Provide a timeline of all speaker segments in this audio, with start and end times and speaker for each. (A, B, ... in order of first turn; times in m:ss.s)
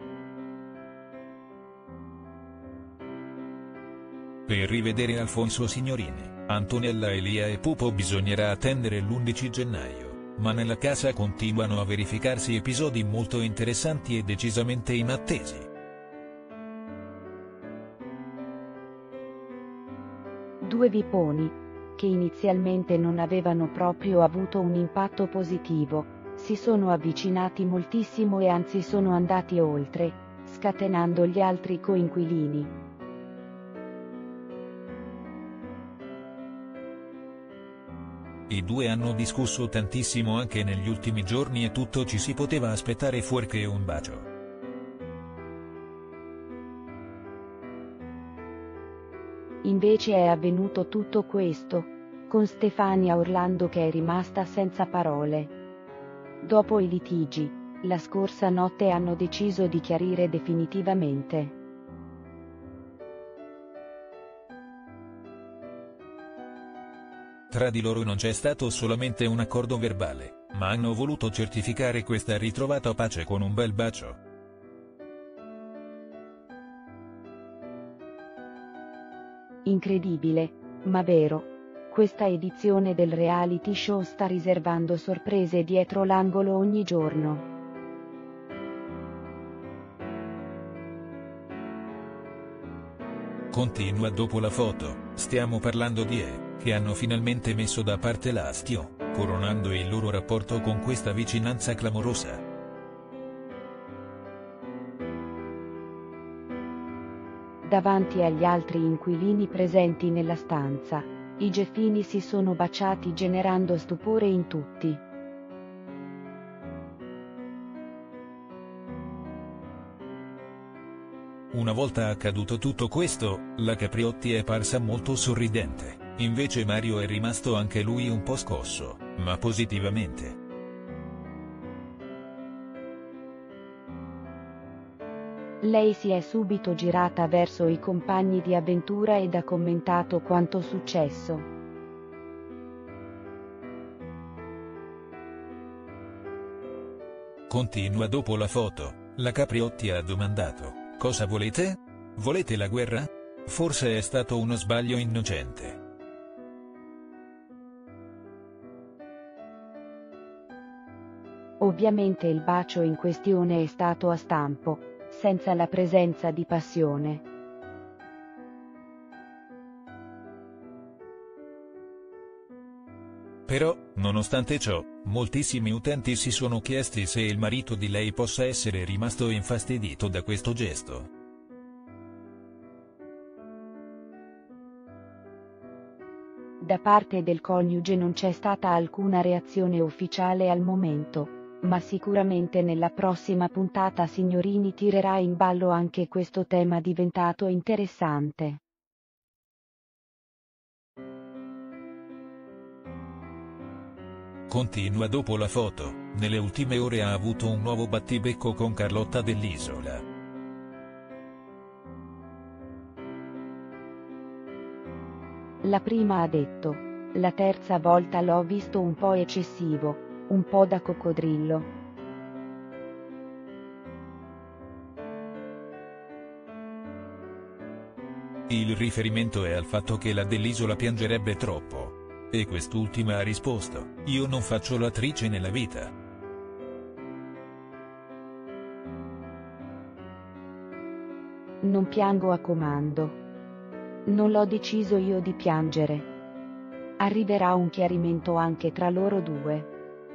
0:04.5-0:15.7 A
0:20.6-0:32.7 B
0:38.5-0:44.3 A
0:49.6-0:55.5 B
0:56.4-1:01.6 B
1:07.5-1:14.2 A
1:19.6-1:27.5 B
1:33.5-1:42.4 A
1:47.6-1:55.0 B
2:01.5-2:10.4 A
2:15.6-2:21.5 B
2:27.5-2:35.8 A
2:41.6-2:47.2 B
2:53.5-3:01.1 A
3:06.6-3:18.6 B
3:24.5-3:30.0 A
3:35.6-3:41.7 B
3:48.5-3:55.9 A
4:01.6-4:03.2 B
4:04.1-4:06.1 B
4:07.0-4:09.7 B